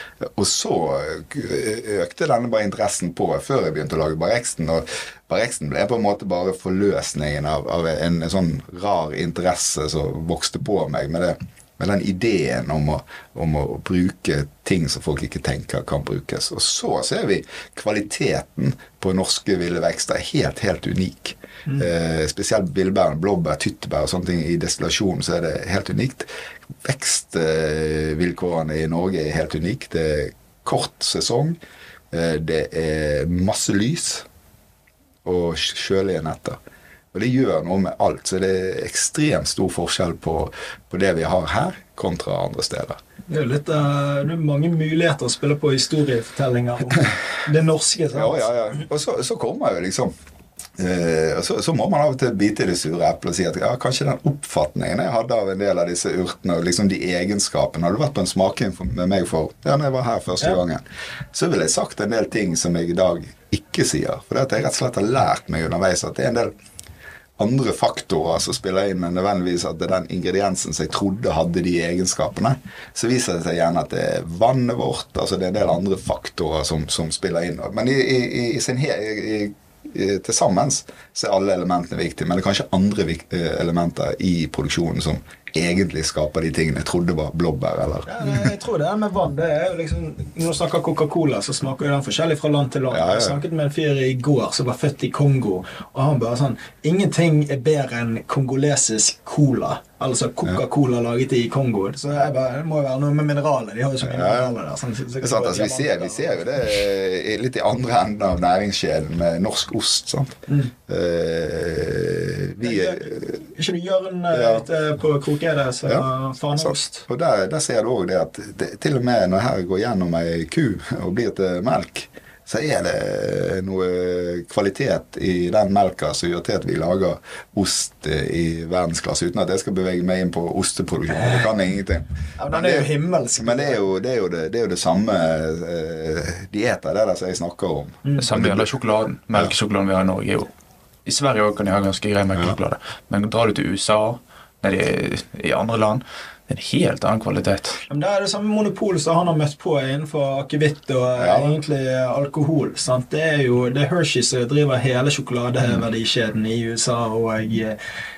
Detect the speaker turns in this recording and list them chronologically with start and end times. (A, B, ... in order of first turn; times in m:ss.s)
0:00.4-0:26.3 A
0:26.8-0:31.6 A
0:32.1-0:34.2 A
0:35.2-0:36.6 A
0:37.1-0:43.0 A
0:43.3-0:48.5 B
0:48.1-0:50.1 A
0:50.8-1:06.5 A
1:07.4-1:28.5 A
1:28.1-1:46.5 B
1:32.9-1:33.4 A
1:44.0-1:44.5 A
1:45.2-1:53.5 A
1:52.6-1:57.1 B
1:54.3-1:54.6 A
1:55.8-2:18.7 A
2:12.4-2:13.8 B
2:18.2-2:20.5 C
2:21.0-2:27.8 C
2:27.9-2:37.8 B
2:31.2-2:31.6 A